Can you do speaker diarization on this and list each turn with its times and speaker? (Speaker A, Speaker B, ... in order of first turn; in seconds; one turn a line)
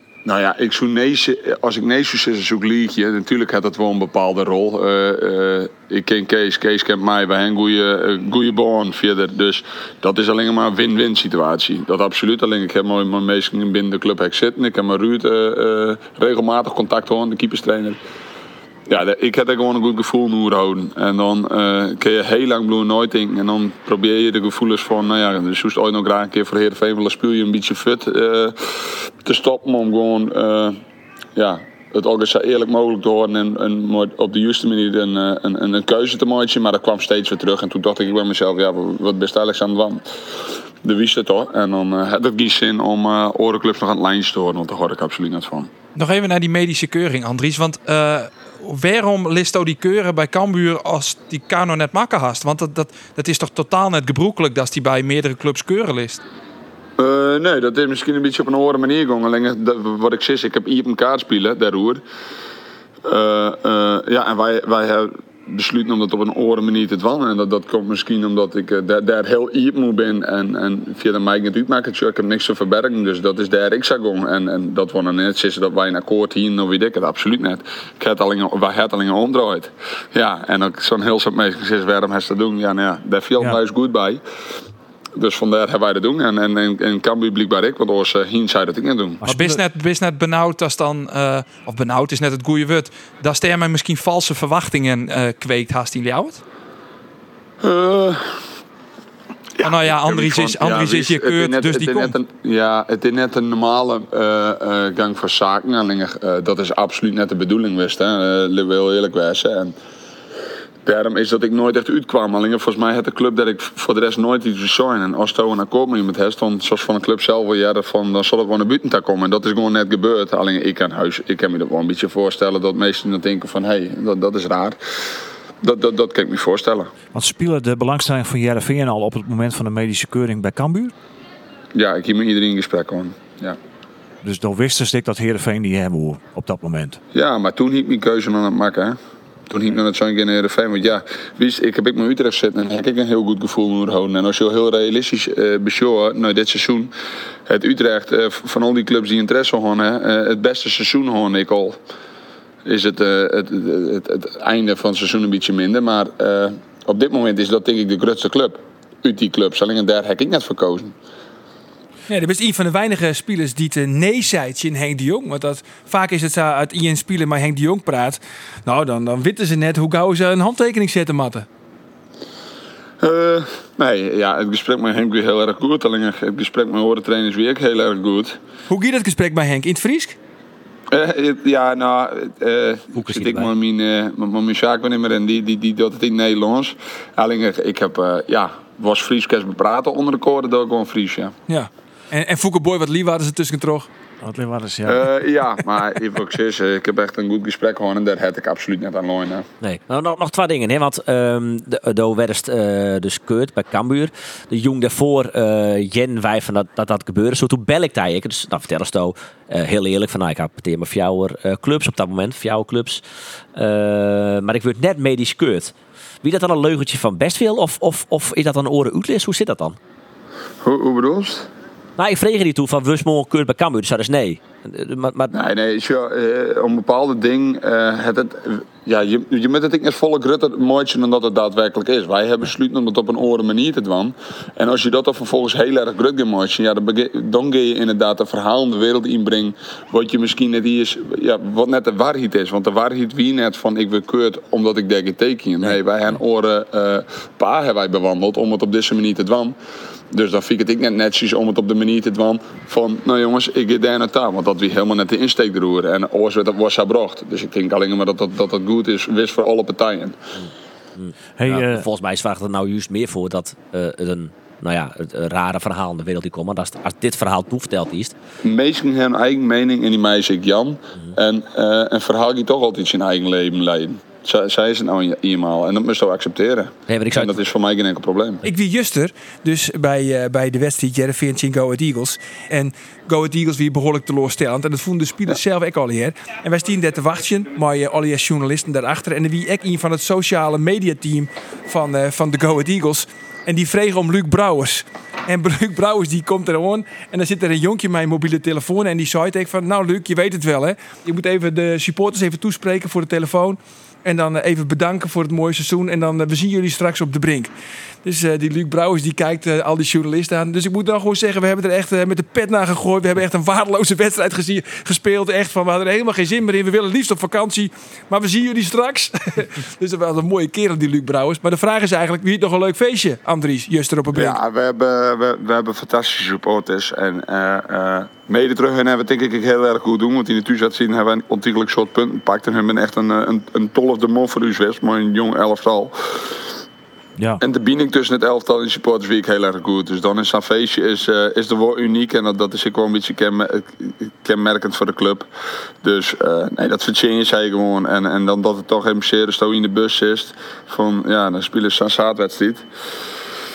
Speaker A: 0.2-18.0
Speaker A: 18.9-30.8
Speaker A: 31.4-40.0
Speaker A: 40.8-45.7
Speaker B: 46.0-56.2
Speaker A: 57.0-62.0
Speaker A: 63.0-84.2
Speaker A: 85.2-89.2
Speaker C: 89.2-89.6
Speaker B: 89.2-96.4
Speaker A: 97.6-98.4
Speaker A: 99.6-109.8
Speaker B: 99.6-102.2
Speaker A: 110.8-124.8
Speaker A: 125.6-126.9
Speaker C: 127.1-130.9
Speaker A: 131.7-133.6
Speaker C: 134.2-137.0
Speaker A: 137.1-139.0
Speaker A: 139.5-146.9
Speaker A: 147.5-151.8
Speaker A: 152.7-160.9
Speaker D: 162.1-171.5
Speaker A: 173.0-178.4
Speaker D: 178.7-180.2
Speaker A: 180.9-191.3
Speaker E: 182.9-183.5
Speaker D: 191.5-193.9
Speaker C: 194.2-195.1
Speaker A: 194.9-199.5
Speaker E: 199.6-213.0
Speaker E: 213.6-219.8
Speaker A: 220.6-221.5
Speaker E: 222.0-225.4
Speaker A: 225.3-249.6
Speaker A: 250.1-260.2
Speaker E: 260.4-268.1
Speaker C: 261.4-261.9
Speaker A: 268.4-278.4
Speaker E: 276.9-277.4
Speaker D: 278.5-307.5
Speaker D: 308.0-324.4
Speaker A: 324.1-336.4
Speaker C: 337.2-337.4
Speaker A: 337.4-345.3
Speaker A: 345.8-352.6